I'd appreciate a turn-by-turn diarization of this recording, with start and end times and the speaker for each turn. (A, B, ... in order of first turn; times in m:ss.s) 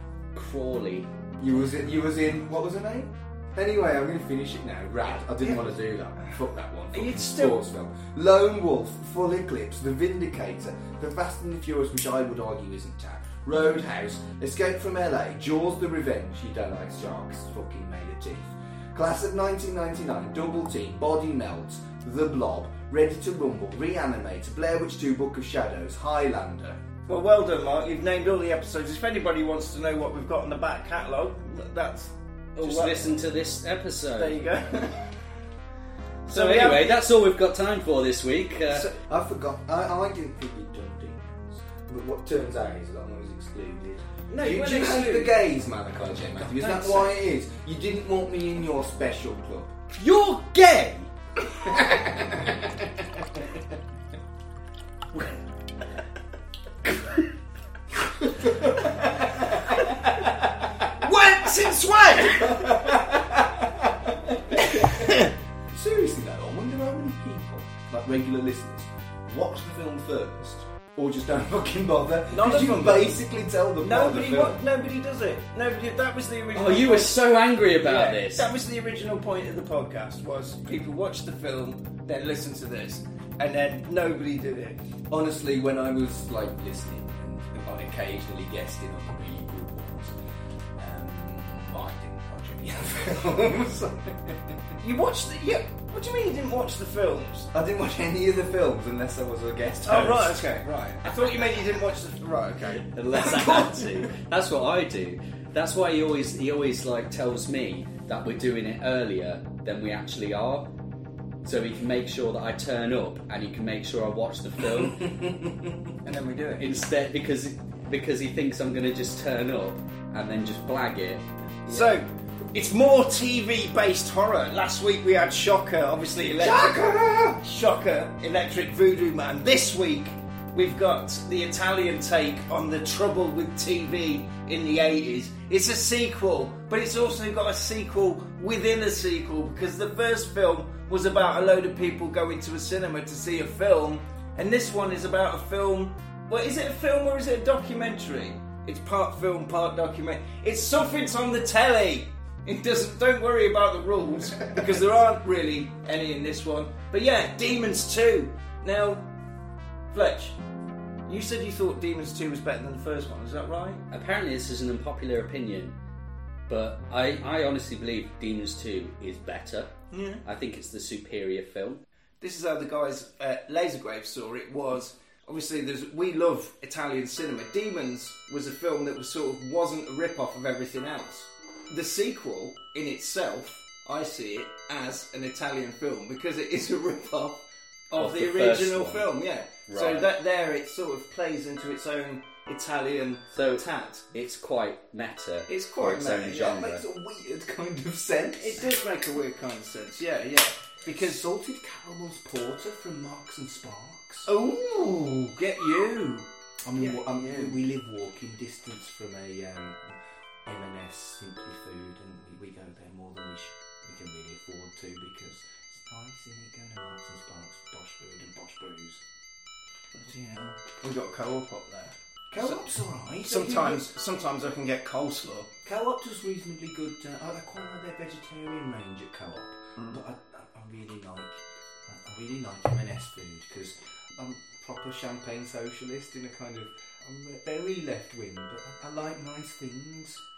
0:00.3-0:01.1 A
0:01.4-0:26.8 B
0:06.9-0:07.6 C
0:27.1-0:33.2 C
0:32.6-0:34.4 A
0:34.2-0:35.0 C
0:36.3-0:37.0 C
0:36.3-0:38.9 A
0:38.8-0:49.7 B
0:44.3-0:45.4 C
0:46.4-0:47.2 C
0:50.0-0:51.1 C
0:51.6-0:53.2 B
0:58.2-1:00.9 B
1:01.0-1:02.9 C
1:02.2-1:14.6 B
1:04.6-1:05.3 C
1:12.3-1:13.1 C
1:13.8-1:17.3 C
1:16.5-1:18.4 A
1:17.8-1:24.8 C
1:25.1-1:30.1 B
1:30.8-1:34.8 B
1:34.8-1:37.5 C
1:37.5-1:40.6 B
1:39.8-1:42.9 C
1:42.8-1:50.7 A
1:51.4-1:55.1 A
1:56.0-1:56.7 C
1:56.6-2:02.0 A
2:01.7-2:06.8 C
2:06.4-2:07.4 B
2:07.4-2:39.0 C
2:39.9-2:40.4 C
2:41.1-2:43.8 C
2:43.9-2:45.8 A
2:46.5-2:49.7 A
2:49.9-2:50.2 C
2:50.2-2:51.8 A
2:52.2-3:14.1 C
3:08.0-3:09.1 A
3:09.7-3:10.1 A
3:13.3-3:16.8 A
3:15.5-3:16.6 C
3:16.3-3:18.7 B
3:18.4-3:21.2 C
3:20.9-3:24.3 B
3:24.2-3:27.6 C
3:26.6-3:29.9 B
3:30.4-3:39.0 B
3:39.9-3:42.6 C
3:42.3-3:43.9 B
3:43.2-3:45.5 C
3:45.6-4:00.2 B